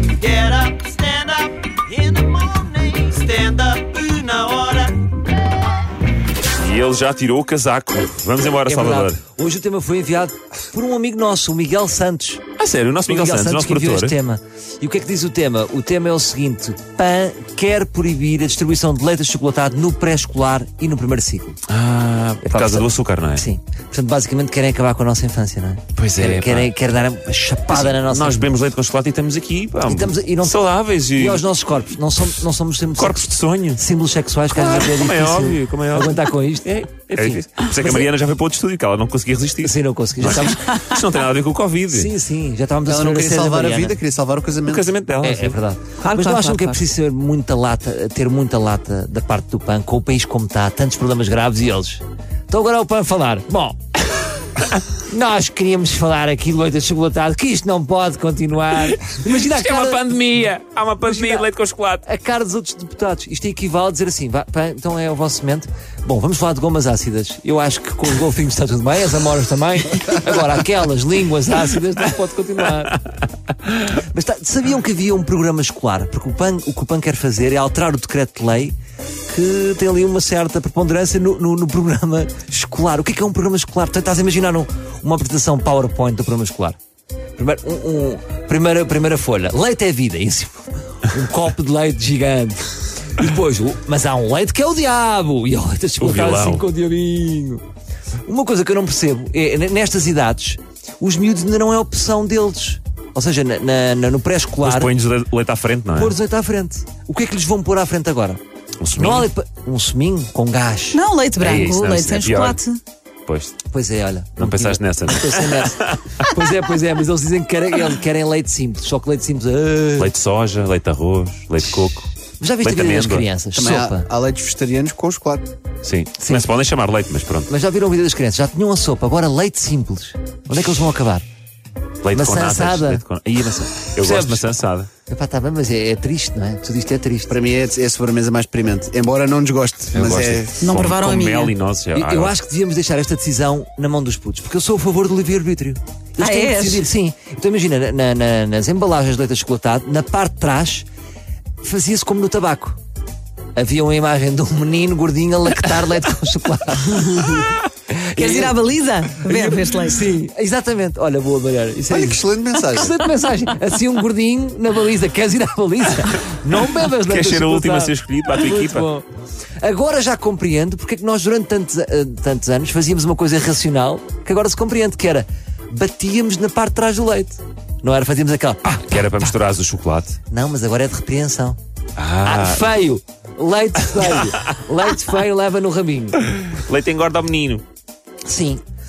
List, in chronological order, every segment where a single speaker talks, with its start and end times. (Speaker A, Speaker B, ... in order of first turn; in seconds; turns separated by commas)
Speaker A: 0.2-5.0, Speaker B: 6.5-9.2, Speaker C: 8.7-12.4, Speaker B: 12.6-14.2, Speaker C: 13.1-21.6, Speaker B: 21.7-23.4, Speaker C: 22.4-28.5, Speaker B: 25.9-26.7, Speaker B: 27.7-31.5, Speaker C: 29.9-30.6, Speaker C: 31.1-37.4, Speaker B: 33.0-33.8, Speaker B: 34.5-42.1, Speaker C: 39.6-40.8, Speaker C: 41.9-44.0, Speaker D: 42.9-44.9, Speaker B: 44.6-45.6, Speaker C: 45.2-53.8, Speaker E: 46.0-46.8, Speaker C: 55.0-60.5, Speaker B: 58.8-62.0, Speaker C: 61.0-61.5, Speaker C: 62.0-73.0, Speaker C: 73.8-78.8, Speaker C: 79.3-86.8, Speaker C: 87.4-97.6, Speaker B: 96.0-96.6, Speaker C: 98.2-104.9, Speaker B: 104.6-106.1, Speaker C: 105.9-108.4, Speaker B: 108.8-109.3, Speaker C: 109.0-111.0, Speaker E: 110.9-112.8, Speaker B: 111.4-112.6, Speaker B: 113.2-113.6, Speaker C: 113.7-120.1, Speaker B: 114.4-116.2, Speaker B: 120.0-122.1, Speaker C: 121.8-124.1, Speaker B: 122.6-123.2, Speaker D: 123.5-125.4, Speaker B: 125.8-127.5, Speaker C: 126.2-126.5, Speaker C: 127.5-131.2, Speaker B: 130.5-130.9, Speaker B: 132.0-134.9, Speaker C: 132.1-133.0, Speaker C: 134.0-134.5, Speaker C: 135.1-137.3, Speaker D: 137.3-140.6, Speaker B: 139.9-142.3, Speaker E: 140.6-141.5, Speaker C: 141.9-150.8, Speaker E: 146.2-146.8, Speaker C: 151.6-152.8, Speaker C: 153.5-158.6, Speaker E: 157.2-157.6, Speaker E: 158.1-160.1, Speaker C: 159.2-169.1, Speaker D: 161.9-162.9, Speaker B: 166.8-168.9, Speaker C: 169.6-179.1, Speaker B: 178.8-180.2, Speaker C: 180.3-181.6, Speaker B: 181.9-182.7, Speaker C: 182.2-186.3, Speaker B: 186.3-187.6, Speaker C: 188.2-188.6